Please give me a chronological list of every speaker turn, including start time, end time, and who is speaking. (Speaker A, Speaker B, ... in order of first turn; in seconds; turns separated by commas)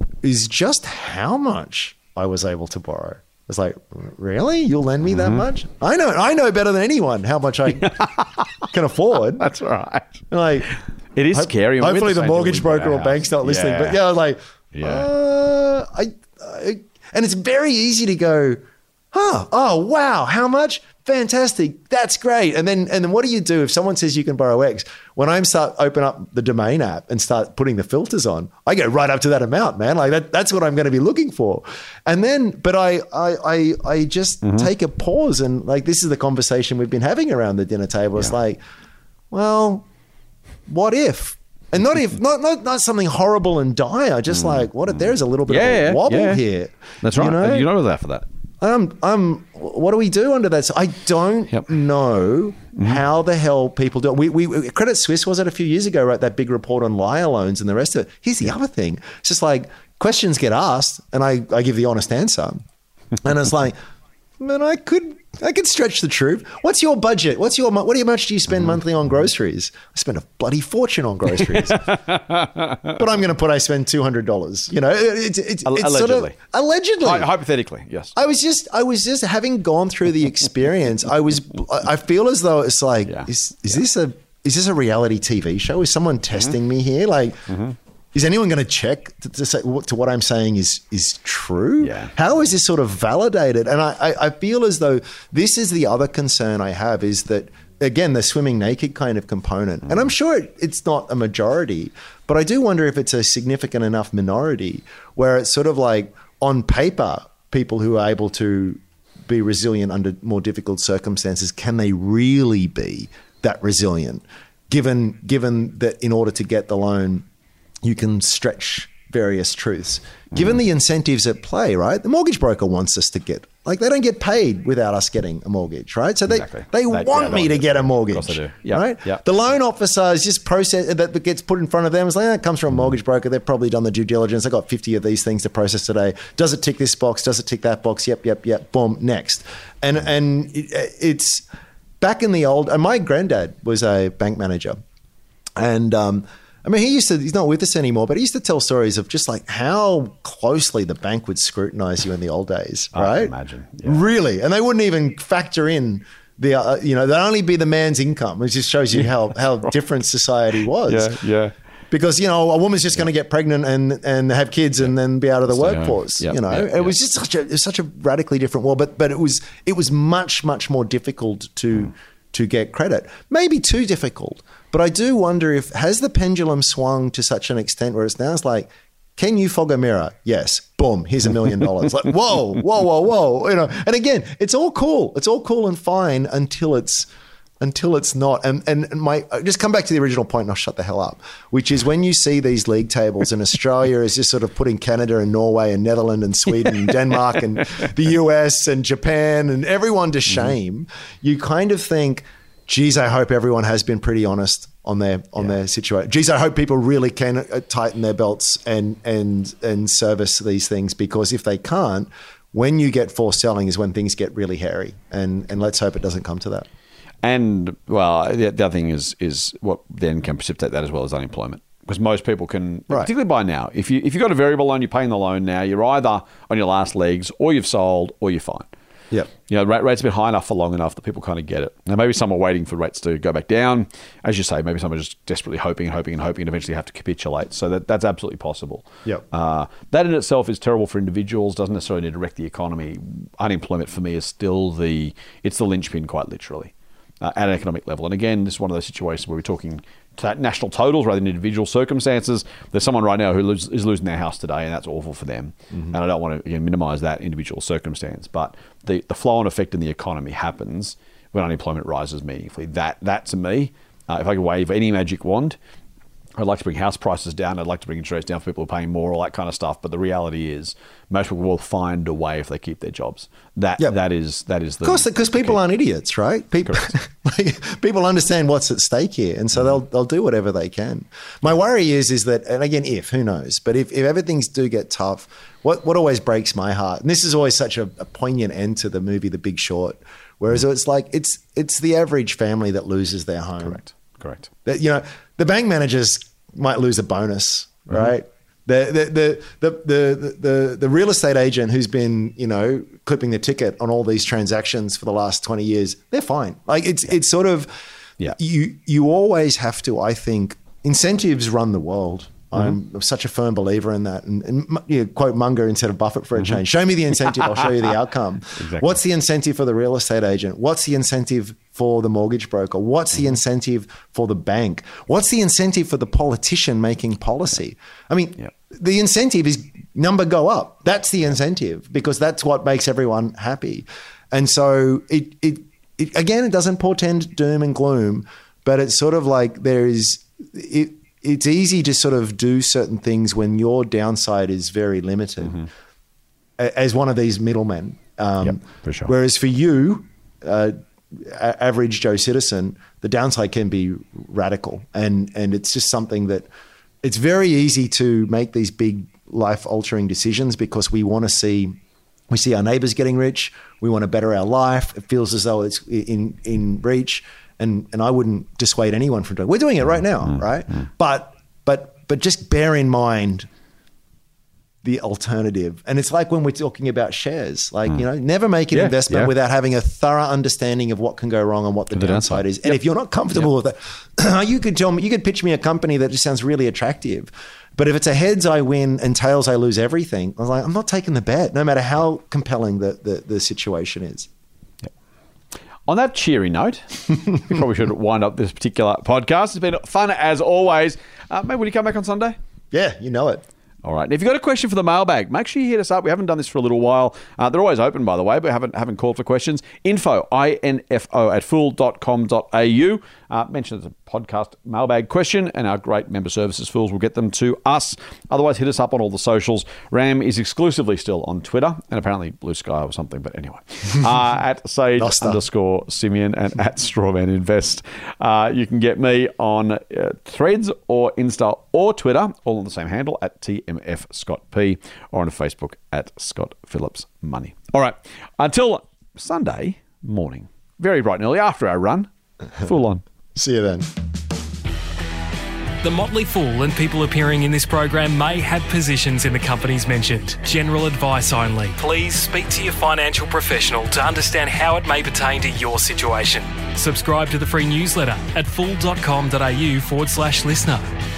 Speaker A: 0.2-9.4, Speaker B: 9.4-10.3, Speaker A: 10.3-10.7, Speaker B: 11.1-14.0, Speaker A: 11.3-18.6, Speaker B: 14.7-15.1, Speaker A: 19.1-38.6, Speaker A: 39.3-39.8, Speaker A: 40.7-47.7, Speaker B: 45.5-46.4, Speaker B: 47.0-48.2, Speaker A: 48.6-62.6, Speaker A: 63.2-63.8, Speaker A: 64.4-71.8, Speaker B: 71.6-72.9, Speaker A: 72.9-77.3, Speaker B: 75.6-76.4, Speaker B: 77.0-78.1, Speaker A: 78.2-87.5, Speaker B: 87.5-87.7, Speaker A: 88.1-117.2, Speaker B: 91.8-92.1, Speaker A: 117.8-141.4, Speaker B: 126.4-129.2, Speaker A: 142.0-144.8, Speaker A: 145.6-161.1, Speaker B: 152.9-154.0, Speaker B: 160.9-161.5, Speaker A: 161.9-187.1, Speaker B: 165.5-166.9, Speaker A: 187.6-216.7, Speaker B: 217.2-228.7, Speaker B: 229.4-265.6, Speaker B: 266.4-275.6, Speaker A: 274.8-293.8, Speaker B: 293.6-294.5, Speaker A: 294.6-307.7, Speaker A: 308.2-345.7, Speaker B: 318.6-319.0, Speaker A: 346.6-356.4, Speaker B: 348.4-349.1, Speaker A: 357.0-361.8, Speaker A: 362.3-373.5, Speaker A: 374.8-394.3, Speaker B: 378.7-379.3, Speaker B: 381.9-382.5, Speaker B: 395.9-402.4, Speaker A: 402.7-403.4, Speaker B: 403.8-443.0, Speaker A: 425.0-425.4, Speaker A: 443.3-443.9, Speaker C: 445.8-460.9